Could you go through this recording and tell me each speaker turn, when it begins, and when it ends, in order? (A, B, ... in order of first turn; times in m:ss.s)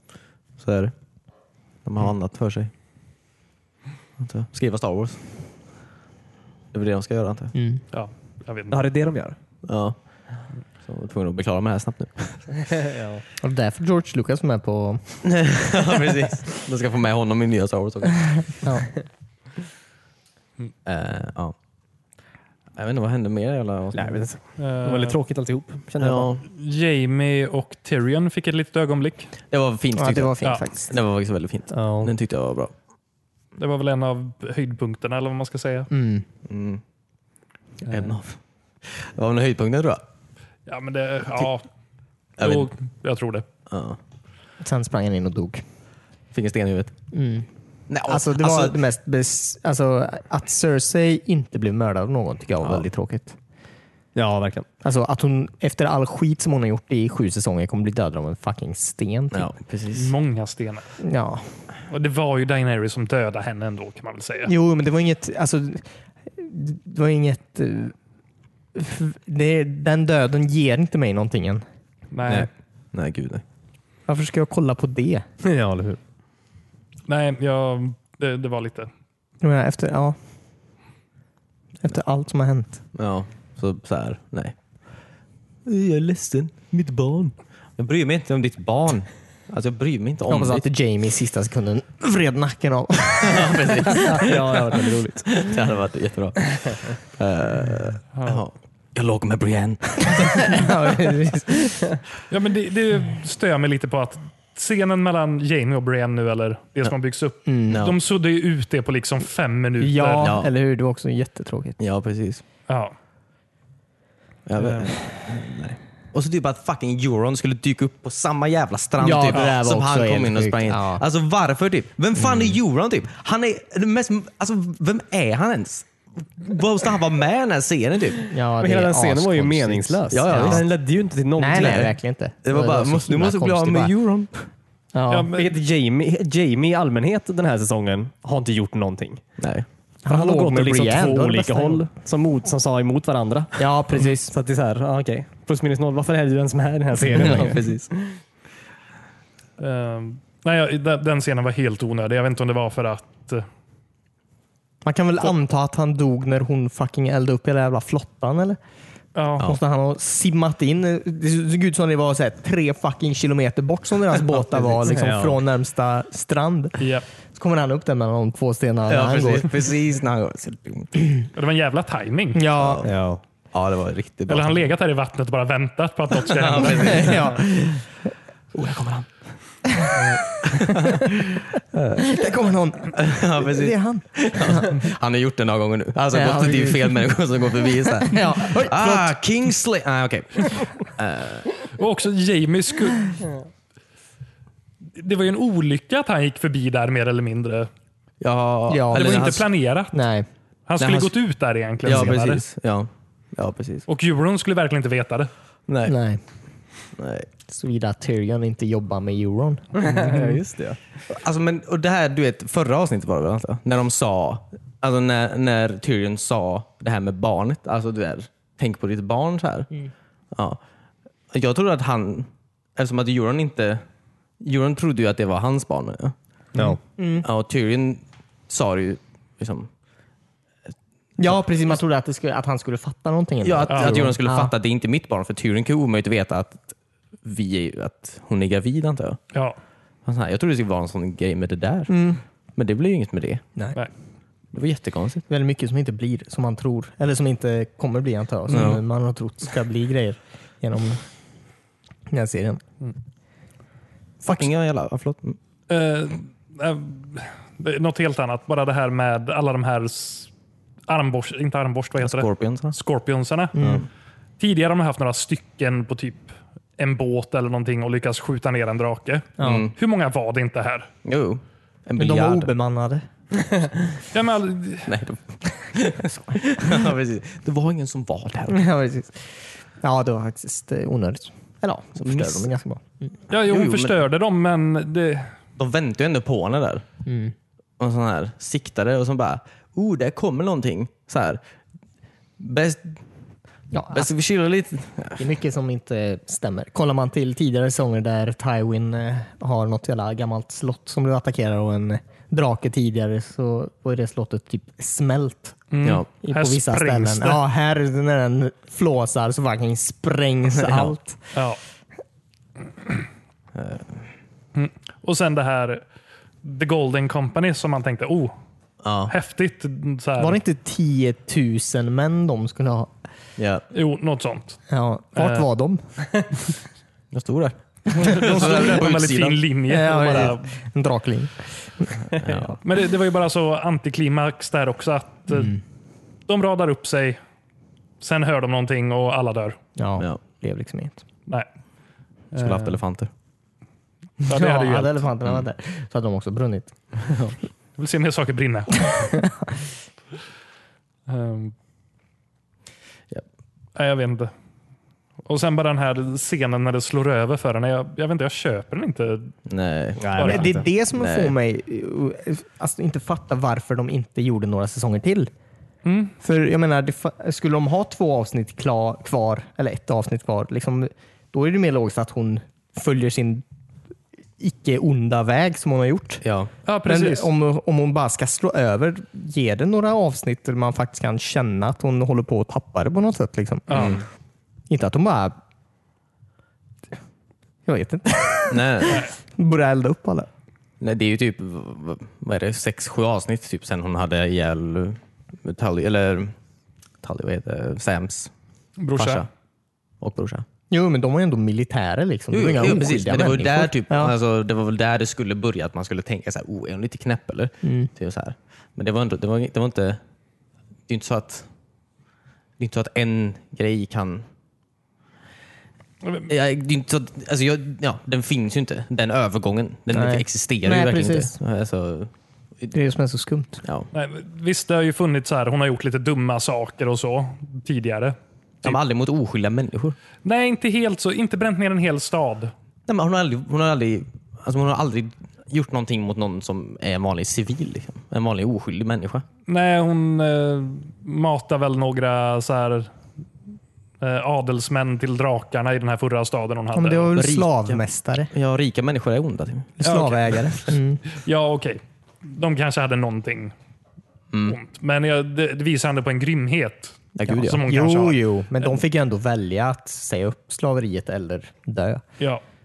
0:00.6-0:00.9 A
0:01.8-0:02.7 A
0:04.2-0:05.2 A
0:06.7-0:07.5 A
0:07.6-0:07.8 B
0:07.9-0:08.8 C
0:08.7-0:09.4 D
0:09.6-0:10.0 A
0:10.8-0:12.5 A
0:12.7-0:13.2 D
0:13.4-0:15.2 B
0:15.2-0:18.6 A
0:18.5-0:19.0 B
0:20.8-0:21.6 A
0:22.8-0:24.3 A
0:23.9-0:26.3 D
0:24.6-0:25.2 C
0:26.0-0:26.4 A
0:26.5-0:29.3 C
0:29.5-0:32.7 A
0:30.0-0:30.9 B
0:31.7-0:32.1 D
0:33.6-0:35.9 C
0:35.9-0:36.2 B
0:36.5-0:36.8 A
0:37.9-0:38.2 C
0:37.9-0:40.0 A
0:40.7-0:41.6 C
0:42.4-0:42.7 A
0:42.4-0:43.4 C
0:43.7-0:44.0 A
0:44.6-0:45.6 B
0:46.3-0:46.9 A
0:47.1-0:47.5 B
0:47.9-0:48.8 A
0:48.1-0:53.4 B
0:54.2-0:54.7 D
0:54.8-0:59.5 B
0:59.3-1:00.1 A
0:59.9-1:01.0 C
1:01.0-1:01.5 B
1:01.9-1:04.5 C
1:04.5-1:07.9 B
1:08.8-1:11.6 B
1:12.1-1:12.5 C
1:12.3-1:13.4 A
1:14.1-1:15.3 B
1:15.4-1:16.0 D
1:17.1-1:18.9 C
1:19.4-1:20.2 B
1:21.8-1:22.8 B
1:23.0-1:24.6 A
1:25.7-1:30.7 A
1:30.3-1:34.2 B
1:33.2-1:34.4 A
1:34.1-1:35.5 D
1:35.3-1:40.7 A
1:38.2-1:38.4 C
1:40.2-1:42.0 B
1:42.3-1:50.3 C
1:47.5-1:47.8 B
1:47.7-1:48.0 A
1:49.8-1:51.8 B
1:50.2-1:50.5 A
1:51.8-1:52.4 A
1:52.7-1:53.0 C
1:54.5-2:08.3 A
1:54.6-1:54.9 C
1:59.0-2:01.0 B
2:08.3-2:10.6 B
2:08.6-2:11.9 D
2:10.1-2:10.6 A
2:11.4-2:13.9 B
2:11.6-2:14.5 A
2:14.9-2:15.3 B
2:15.1-2:15.5 C
2:15.3-2:19.2 D
2:19.4-2:19.7 A
2:20.0-2:21.9 B
2:20.1-2:27.9 D
2:23.6-2:24.4 B
2:27.1-2:27.9 A
2:29.6-2:33.5 C
2:34.8-2:38.6 B
2:39.2-2:39.6 C
2:39.4-2:49.5 B
2:44.8-2:45.4 D
2:46.8-2:47.1 C
2:48.9-2:50.9 A
2:51.3-2:52.4 C
2:52.4-2:52.8 B
2:52.6-2:53.0 A
2:52.8-2:53.2 D
2:53.5-2:54.7 A
2:54.3-2:57.2 C
2:56.3-2:57.9 A
2:56.8-2:57.5 B
2:58.5-2:59.2 A
2:59.8-3:01.1 B
3:00.4-3:02.1 A
3:02.0-3:04.8 B
3:02.9-3:11.5 A
3:06.1-3:07.0 B
3:08.0-3:09.2 B
3:11.6-3:13.3 C
3:15.0-3:17.7 C
3:18.2-3:19.5 A
3:18.7-3:19.4 B
3:18.9-3:19.9 C
3:19.9-3:20.3 B
3:20.7-3:22.4 C
3:20.8-3:21.1 A
3:21.8-3:23.9 A
3:23.9-3:25.3 C
3:25.7-3:26.0 A
3:25.8-3:26.2 B
3:27.0-3:27.3 A
3:27.5-3:30.2 B
3:29.8-3:30.8 D
3:31.1-3:39.7 A
3:40.3-3:40.6 A
3:41.3-3:43.8 A
3:44.4-3:46.2 A
3:47.0-3:47.3 B
3:47.2-3:49.7 A
3:51.2-3:54.5 B
3:53.4-3:59.2 A
3:53.7-3:54.1 C
4:00.0-4:01.9 A
4:01.9-4:02.2 B
4:02.6-4:03.4 A
4:04.5-4:05.2 A
4:05.3-4:11.0 B
4:08.5-4:08.8 A
4:12.1-4:12.6 B
4:14.2-4:14.5 B
4:14.2-4:15.4 A
4:15.7-4:20.3 C
4:20.9-4:23.6 C
4:22.0-4:22.8 A
4:23.6-4:23.9 B
4:23.6-4:23.9 A
4:24.4-4:30.9 C
4:29.4-4:29.7 B
4:29.4-4:29.7 A
4:31.0-4:32.5 A
4:32.0-4:33.7 B
4:34.1-4:34.9 C
4:34.9-4:38.6 A
4:38.5-4:42.8 B
4:42.0-4:42.5 A
4:43.3-4:45.4 C
4:43.4-4:44.0 A
4:45.6-4:46.8 A
4:47.0-4:47.3 B
4:47.8-4:51.4 A
4:52.4-4:53.0 A
4:53.7-4:54.1 B
4:53.9-4:55.2 A
4:55.2-5:05.6 B
5:05.7-5:07.4 C
5:06.2-5:11.2 B
5:10.5-5:10.9 A
5:11.3-5:11.6 C
5:13.6-5:14.0 A
5:14.6-5:15.8 C
5:16.4-5:18.3 C
5:18.8-5:19.1 A
5:19.1-5:20.4 C
5:20.2-5:22.9 B
5:23.4-5:23.6 A
5:23.7-5:24.6 C
5:24.7-5:26.3 B
5:25.2-5:25.5 C
5:27.1-5:29.4 A
5:28.0-5:30.5 C
5:28.0-5:28.6 B
5:29.7-5:32.4 B
5:32.0-5:32.6 A
5:32.6-5:35.6 C
5:35.3-5:35.6 B
5:36.3-5:37.2 C
5:38.0-5:39.6 C
5:39.8-5:41.0 B
5:42.3-5:42.8 C
5:42.4-5:43.1 A
5:44.2-5:45.0 C
5:44.3-5:46.7 B
5:47.0-5:47.4 A
5:47.8-5:49.1 C
5:48.9-5:49.4 B
5:51.1-5:51.5 C
5:53.8-5:54.3 C
5:55.2-5:59.3 C
5:59.5-6:00.1 A
6:00.0-6:00.7 D
6:00.2-6:00.5 C
6:00.2-6:05.3 B
6:01.0-6:01.3 A
6:05.8-6:06.1 C
6:06.2-6:13.4 B
6:14.4-6:16.2 B
6:16.2-6:16.5 A
6:16.7-6:17.3 C
6:16.8-6:24.0 B
6:23.7-6:24.0 C
6:23.7-6:24.0 A
6:24.7-6:25.4 B
6:27.7-6:30.3 B
6:28.5-6:29.0 A
6:28.9-6:29.1 C
6:30.8-6:36.4 A
6:37.0-6:38.3 A
6:38.8-6:39.2 C
6:39.0-6:39.3 A
6:40.0-6:40.4 A
6:40.7-6:44.1 B
6:42.3-6:50.0 A
6:47.6-6:47.9 B
6:50.9-6:51.5 A
6:52.6-6:54.3 A
6:56.3-7:02.8 A
6:59.9-7:01.3 B
7:02.7-7:03.6 B
7:03.6-7:03.9 A
7:03.9-7:08.8 C
7:08.6-7:10.0 A
7:10.2-7:12.5 C
7:12.9-7:19.2 A
7:19.5-7:22.9 C
7:24.0-7:27.1 C
7:26.7-7:28.3 B
7:27.2-7:29.8 A
7:29.8-7:31.0 B
7:29.8-7:33.5 C
7:34.3-7:34.6 A
7:34.5-7:38.8 C
7:37.2-7:37.6 A
7:37.3-7:42.0 B